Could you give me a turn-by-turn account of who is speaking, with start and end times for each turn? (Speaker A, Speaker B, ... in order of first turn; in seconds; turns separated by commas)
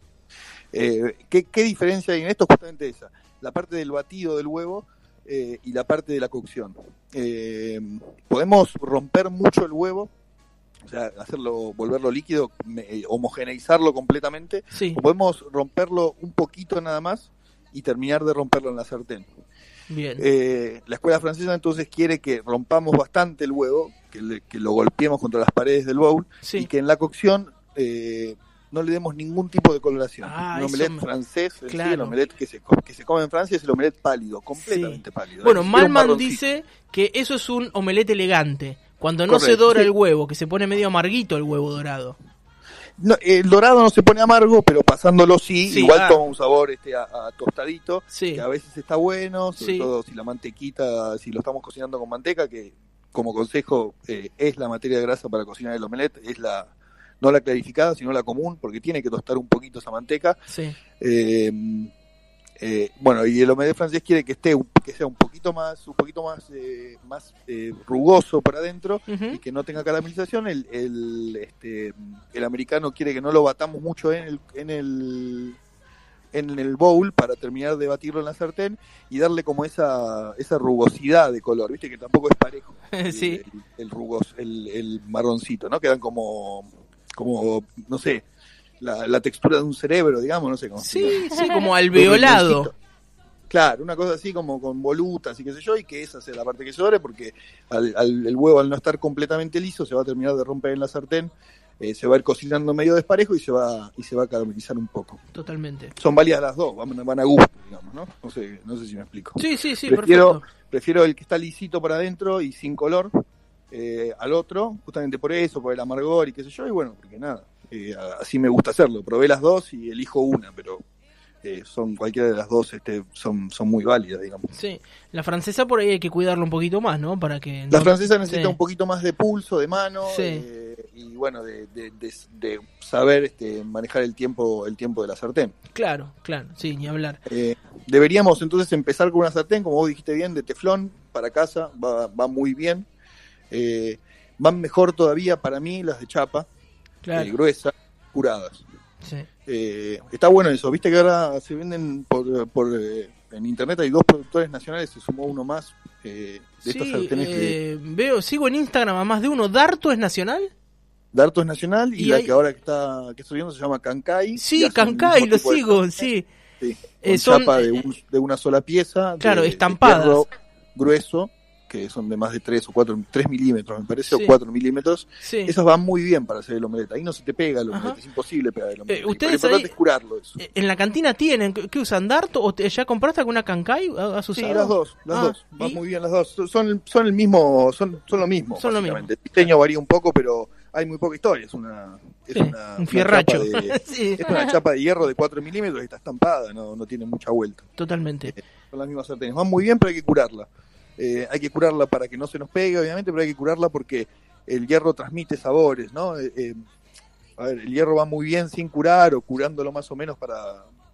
Speaker A: 0.7-10.1, Speaker A: 10.8-19.3, Speaker B: 14.7-15.0, Speaker B: 19.9-20.2, Speaker A: 20.2-36.4, Speaker B: 26.4-26.7, Speaker B: 30.2-31.0, Speaker B: 31.7-32.1, Speaker B: 34.6-42.2, Speaker A: 39.3-39.9, Speaker A: 43.0-60.4, Speaker B: 45.7-46.2, Speaker B: 48.1-48.4, Speaker B: 49.6-49.9, Speaker B: 60.5-60.8, Speaker A: 61.0-61.9, Speaker A: 62.6-75.6, Speaker B: 69.1-69.4, Speaker A: 76.3-88.2, Speaker B: 82.9-83.4, Speaker A: 88.8-91.3, Speaker B: 90.8-92.7, Speaker A: 91.9-92.7, Speaker A: 93.5-105.2, Speaker B: 105.3-105.9, Speaker A: 106.0-113.1, Speaker B: 109.4-110.4, Speaker A: 113.7-120.8, Speaker A: 121.4-124.5, Speaker B: 124.5-128.6, Speaker A: 127.7-135.5, Speaker B: 130.0-130.4, Speaker B: 135.7-137.2, Speaker A: 137.3-142.9, Speaker A: 143.5-146.5, Speaker B: 147.0-147.3, Speaker A: 147.1-148.6, Speaker A: 149.4-157.6, Speaker B: 156.7-160.5, Speaker A: 161.1-166.1, Speaker B: 162.0-162.3, Speaker B: 164.4-166.2, Speaker A: 166.6-180.4, Speaker B: 167.0-167.8, Speaker B: 169.2-170.2, Speaker B: 174.1-174.3, Speaker B: 175.2-175.5, Speaker B: 177.7-178.0, Speaker B: 178.9-179.7, Speaker B: 180.4-185.8, Speaker A: 184.3-197.7, Speaker B: 188.6-189.1, Speaker B: 192.3-194.4, Speaker B: 197.8-198.3, Speaker A: 198.3-206.6, Speaker A: 207.4-210.7